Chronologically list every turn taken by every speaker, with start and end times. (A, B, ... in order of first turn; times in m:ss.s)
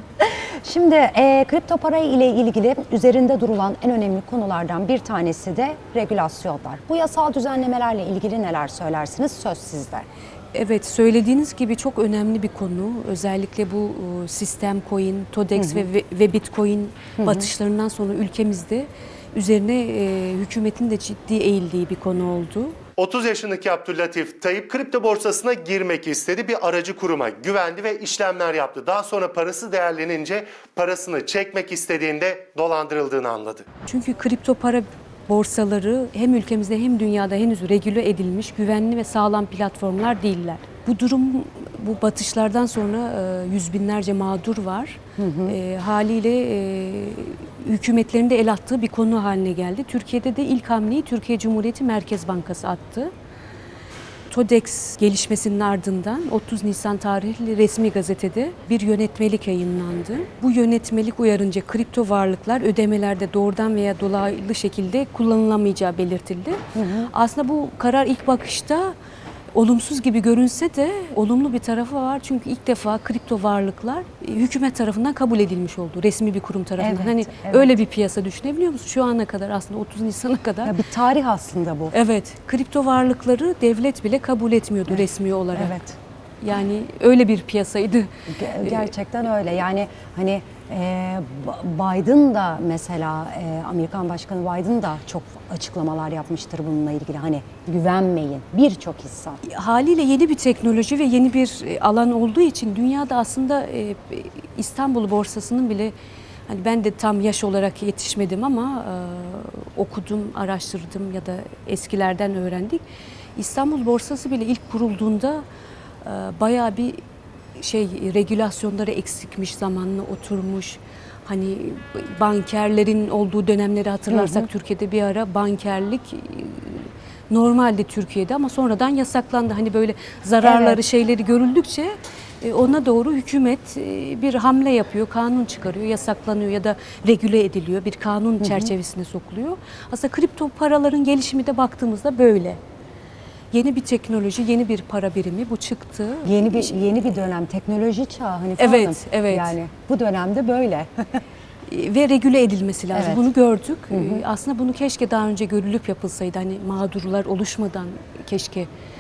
0:00.2-0:10.1 A
0:10.5-0:22.8 B
0:15.6-0:15.9 A
0:17.2-0:17.5 A
0:23.0-0:33.6 C
0:33.9-0:53.1 B
0:45.2-0:45.6 A
0:54.3-1:09.0 B
1:06.8-1:07.1 A
1:09.5-1:20.8 B
1:16.8-1:17.8 A
1:20.6-1:22.0 A
1:21.9-1:25.7 B
1:24.9-1:26.0 A
1:26.4-1:28.1 B
1:28.3-1:39.4 A
1:28.6-1:28.9 B
1:39.4-1:45.9 B
1:46.5-1:52.8 B
1:53.4-1:55.4 B
1:56.0-1:57.0 B
1:57.6-2:22.6 B
2:04.1-2:04.5 A
2:10.4-2:10.8 A
2:18.4-2:18.7 A
2:23.5-2:27.1 B
2:26.2-2:31.2 A
2:28.6-2:29.5 B
2:31.7-2:38.7 B
2:32.9-2:33.3 A
2:33.9-2:34.2 A